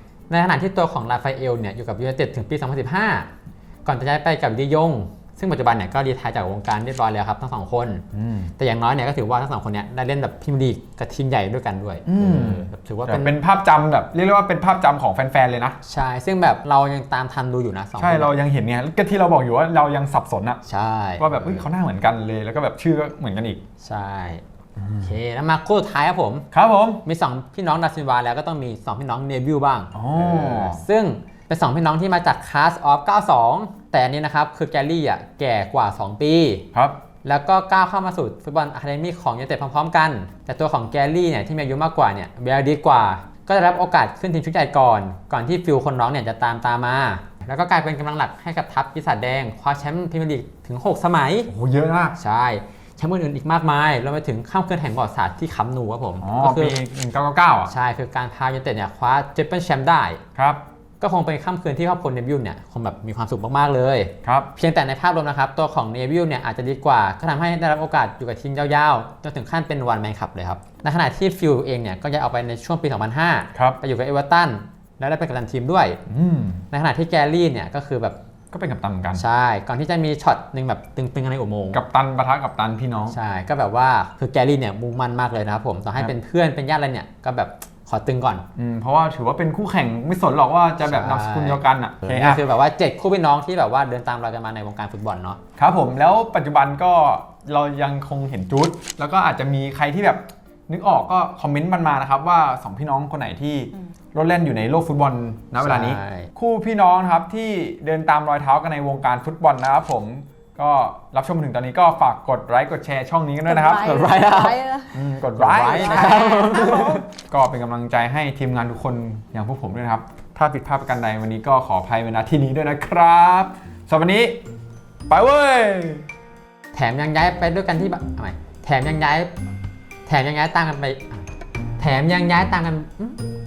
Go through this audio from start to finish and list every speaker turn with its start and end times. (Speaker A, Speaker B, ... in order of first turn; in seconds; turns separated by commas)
Speaker A: 0.3-3.3, Speaker A: 3.8-8.0, Speaker B: 8.1-8.5, Speaker A: 8.6-13.3, Speaker B: 12.1-15.8, Speaker A: 15.8-18.3, Speaker B: 18.0-20.6, Speaker A: 20.7-21.6, Speaker B: 21.2-23.6, Speaker A: 23.8-24.4, Speaker B: 24.8-25.1, Speaker A: 25.0-26.4, Speaker B: 26.5-27.0, Speaker A: 27.0-36.6, Speaker B: 29.9-30.8, Speaker B: 36.7-37.0, Speaker A: 37.2-51.5, Speaker B: 51.5-52.1, Speaker A: 52.2-56.8, Speaker B: 56.2-57.7, Speaker A: 57.7-60.2, Speaker B: 60.4-60.6, Speaker A: 61.0-76.0, Speaker B: 64.2-64.5, Speaker B: 76.1-76.6, Speaker A: 76.7-78.2, Speaker B: 78.5-79.2, Speaker A: 79.1-81.8, Speaker B: 81.7-83.2, Speaker A: 83.1-88.4, Speaker B: 88.5-92.4, Speaker A: 90.8-95.4, Speaker B: 95.6-113.9, Speaker A: 105.6-106.3, Speaker C: 113.5-115.0, Speaker A: 113.8-114.6, Speaker B: 114.9-124.4, Speaker A: 115.3-117.0, Speaker C: 115.7-116.8, Speaker B: 125.1-126.0, Speaker A: 126.7-129.3, Speaker A: 130.1-131.2, Speaker A: 131.8-133.2